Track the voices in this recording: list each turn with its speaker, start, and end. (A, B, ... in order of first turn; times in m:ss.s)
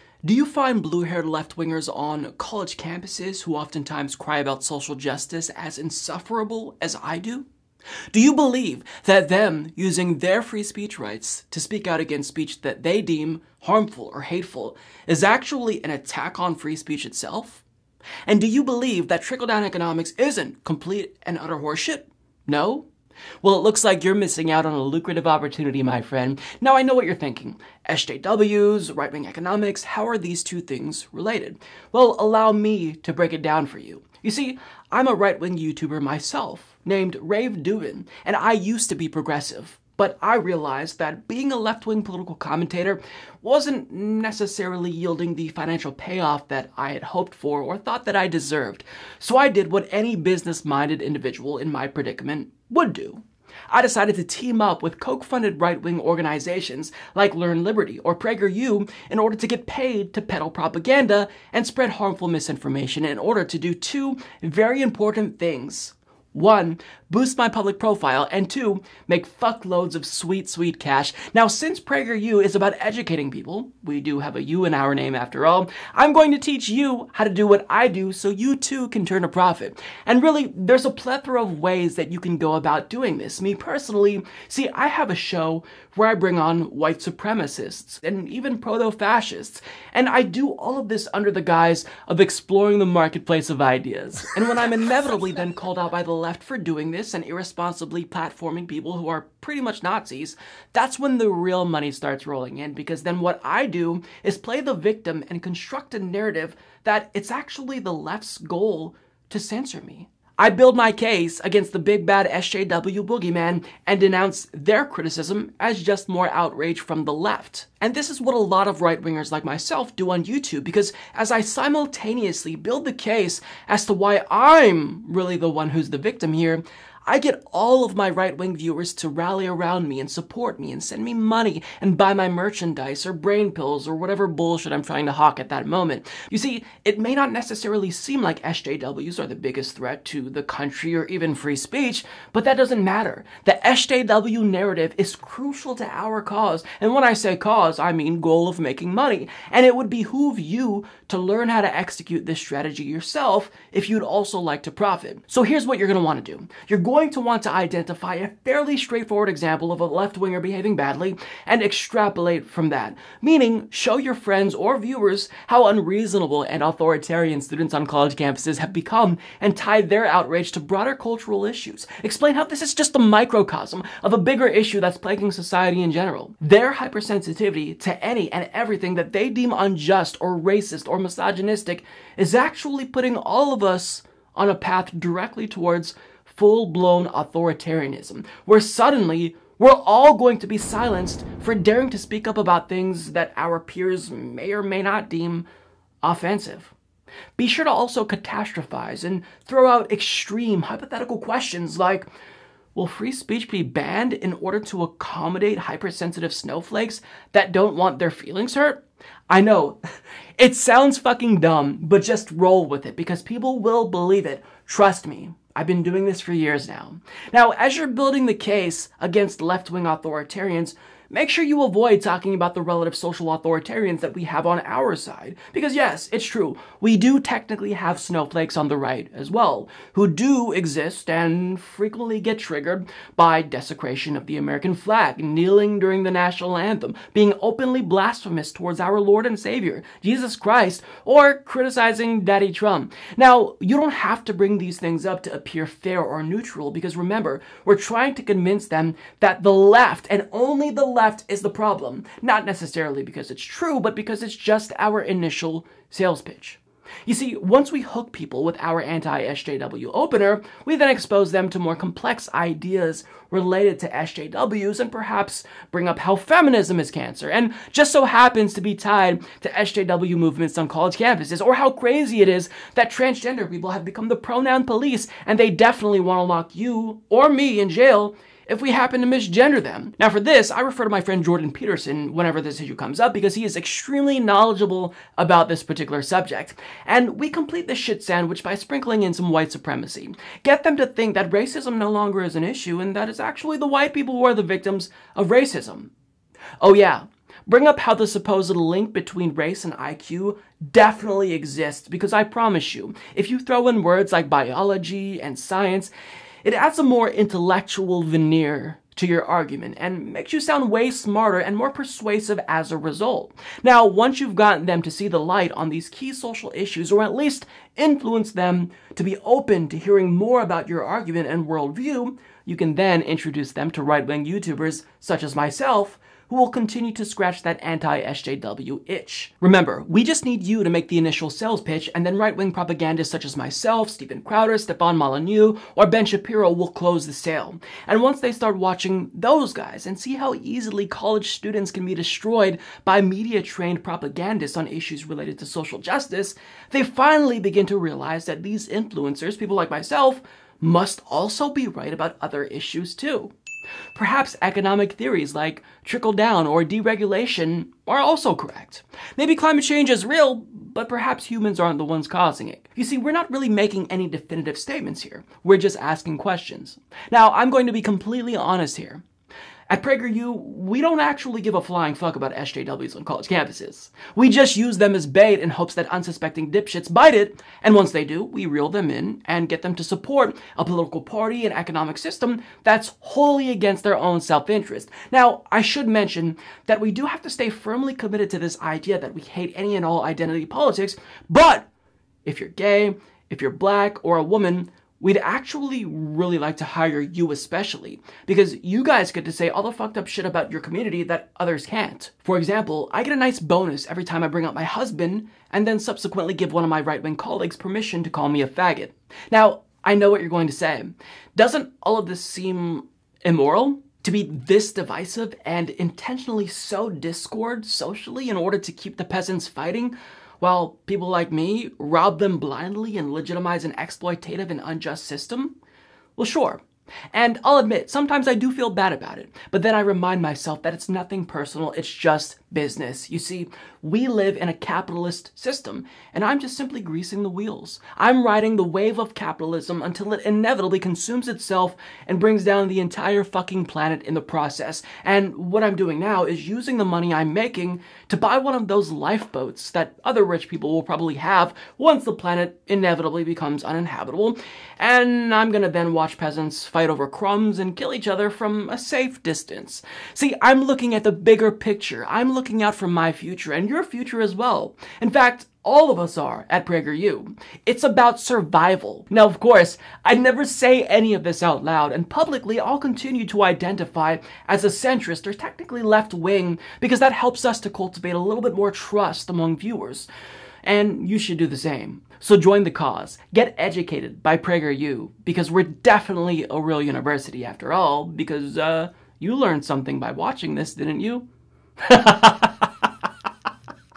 0:00.2-0:07.5 A
0:08.1-0:17.6 A
0:18.3-0:22.9 A
0:23.4-3:15.4 A
3:16.0-3:16.7 A
3:17.4-3:22.1 A
3:22.7-3:29.8 A
3:30.4-4:55.9 A
4:56.6-5:05.9 A
5:06.4-5:53.3 A
5:53.9-6:09.0 A
6:09.7-6:31.7 A
6:32.2-7:05.5 A
7:06.2-8:00.1 A
8:00.6-8:11.2 A
8:11.8-8:12.7 A